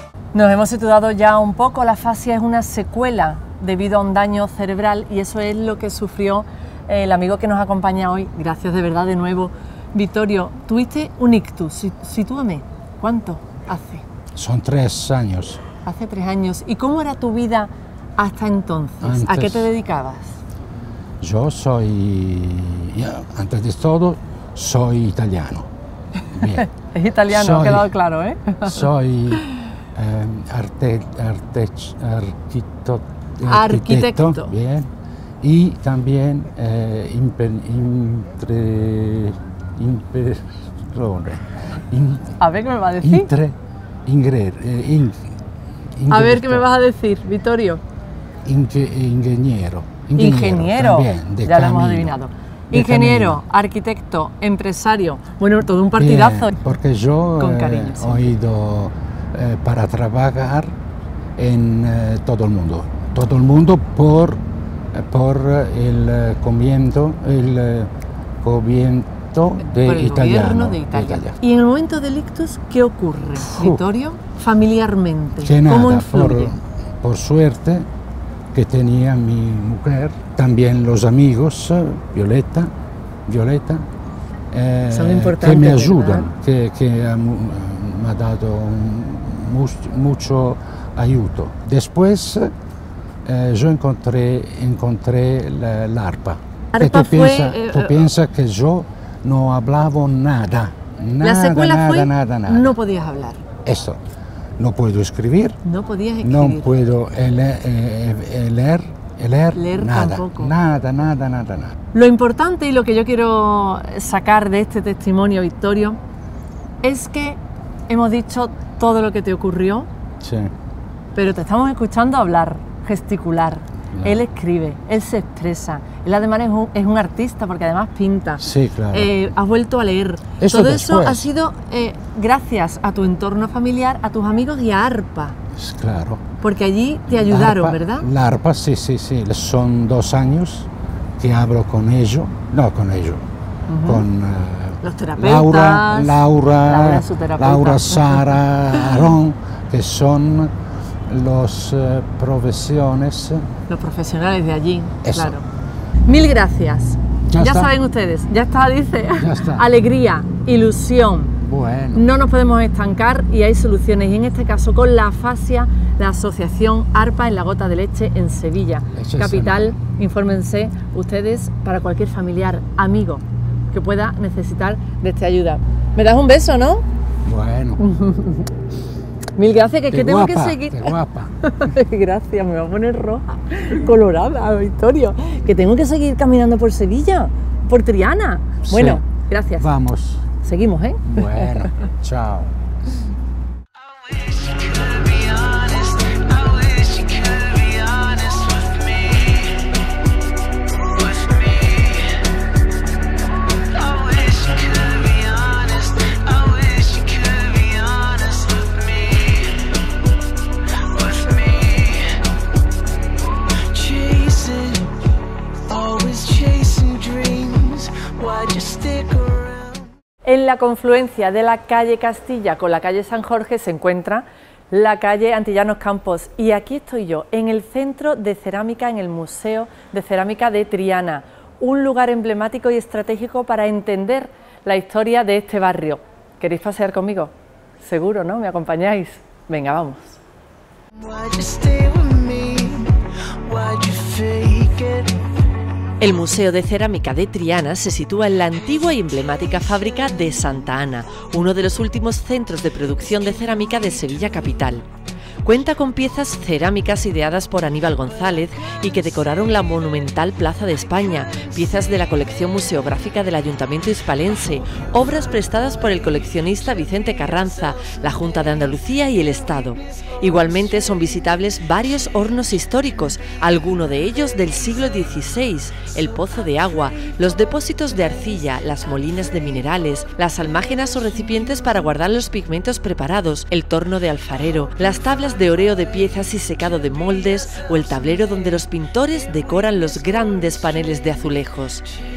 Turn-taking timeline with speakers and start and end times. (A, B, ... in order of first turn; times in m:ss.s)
0:00.3-0:14.0 A
0:14.3-0:15.6 B
0:15.8-0:20.4 A
0:19.0-0:19.7 B
0:21.2-0:25.7 B
0:26.3-0:26.7 B
0:26.5-0:29.4 A
0:27.3-0:27.9 B
0:28.6-0:34.9 B
0:33.5-0:34.5 A
0:35.4-0:42.4 B
0:42.4-0:43.3 A
0:43.0-0:43.5 B
0:44.0-0:45.3 B
0:46.0-0:46.7 B
0:46.1-0:47.8 A
0:48.4-0:52.1 B
0:50.2-0:56.6 A
0:52.7-0:53.4 B
0:56.0-1:00.7 B
0:57.4-0:58.3 A
1:01.4-1:04.4 B
1:04.9-1:07.9 B
1:08.4-1:11.4 B
1:09.6-1:16.6 A
1:13.4-1:13.8 B
1:15.4-1:17.9 B
1:18.5-1:22.7 B
1:23.3-1:23.8 B
1:24.5-1:32.5 B
1:24.9-1:26.3 A
1:33.2-1:42.7 B
1:36.7-1:38.0 A
1:41.2-1:43.4 A
1:43.6-1:44.0 B
1:44.6-1:45.6 B
1:45.6-1:46.7 A
1:46.2-1:51.8 B
1:49.5-1:50.5 A
1:51.9-1:56.0 A
1:56.8-1:59.9 A
2:00.2-2:00.5 B
2:01.1-2:15.4 A
2:03.9-2:04.2 B
2:08.4-2:09.1 B
2:10.4-2:11.3 B
2:15.5-2:16.2 B
2:16.4-2:18.0 A
2:17.1-2:23.3 B
2:23.7-2:24.0 A
2:23.8-2:30.5 B
2:24.8-2:29.0 A
2:31.1-2:33.5 B
2:33.7-2:35.4 A
2:35.0-2:35.4 B
2:36.0-2:41.4 A
2:37.3-2:37.7 B
2:39.2-2:39.6 B
2:41.4-2:42.1 B
2:41.9-2:56.8 A
2:49.0-2:49.8 B
2:57.2-2:57.8 B
2:57.8-2:58.5 A
2:59.4-3:09.7 A
2:59.9-3:01.3 B
3:08.7-3:09.0 B
3:09.6-3:10.2 B
3:10.4-3:11.7 A
3:11.0-3:12.5 B
3:14.1-3:19.5 C
3:21.0-3:22.0 C
3:23.7-3:29.5 C
3:30.9-3:32.0 C
3:33.7-3:34.9 C
3:35.7-3:39.9 C
3:40.2-4:00.2 A
4:01.0-4:02.9 C
4:03.4-4:05.1 C
4:06.0-4:14.9 A
4:15.4-4:51.8 A